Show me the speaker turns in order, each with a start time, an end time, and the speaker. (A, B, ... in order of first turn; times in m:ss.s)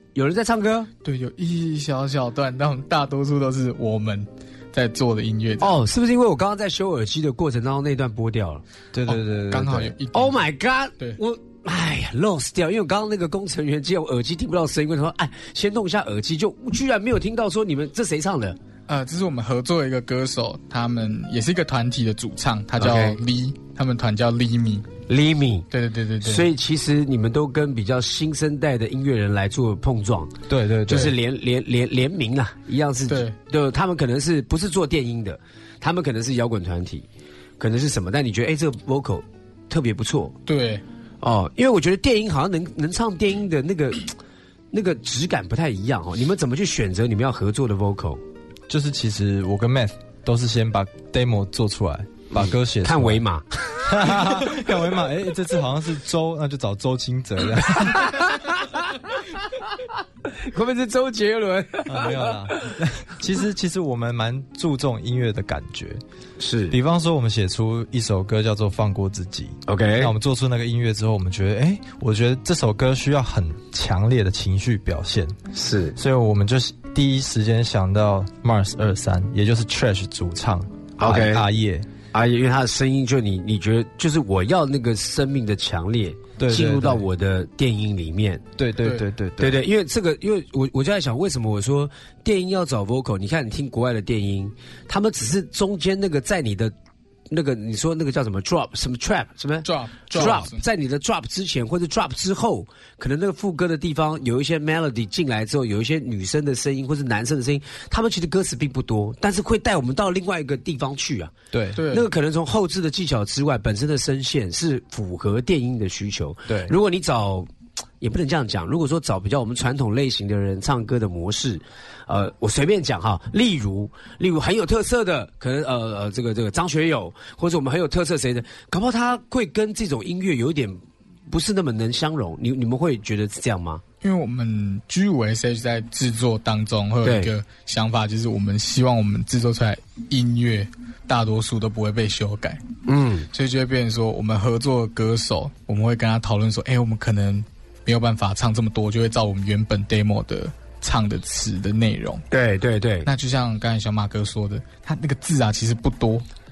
0:00.1-0:00.9 A
0:01.0-0:05.8 B
0:05.6-0:08.6 A
0:08.9-0:09.9 C
0:09.0-0:10.4 B
0:10.1-0:18.6 A
0:18.9-0:24.9 B
0:22.8-0:23.2 A
0:25.1-0:25.6 A
0:25.7-0:26.5 B
0:26.2-0:30.3 A
0:30.5-0:31.1 C
0:30.8-0:37.0 A
0:33.1-0:33.3 B
0:37.6-0:40.3 A
0:40.4-0:40.8 B
0:41.2-0:44.1 A
0:44.7-0:48.2 A
0:48.7-0:53.2 C
0:52.3-0:54.5 A
0:53.8-0:58.1 C
0:57.8-0:58.9 A
1:00.4-1:02.4 A
1:01.9-1:06.0 C
1:06.4-1:06.7 A
1:06.7-1:15.4 C
1:09.7-1:10.1 A
1:15.5-1:15.9 A
1:15.9-1:21.9 C
1:21.0-1:21.4 A
1:22.1-1:28.4 A
1:26.4-1:27.0 C
1:28.6-1:29.6 C
1:29.4-1:36.7 A
1:37.3-1:51.3 A
1:39.6-1:40.6 B
1:51.5-1:51.8 C
1:51.8-1:52.1 B
1:51.9-1:57.5 A
1:56.5-1:56.7 C
1:58.0-2:13.8 A
2:14.0-2:22.6 B
2:17.0-2:17.3 A
2:22.9-2:23.3 A
2:23.3-2:32.2 B
2:32.3-2:33.1 A
2:33.0-2:36.2 B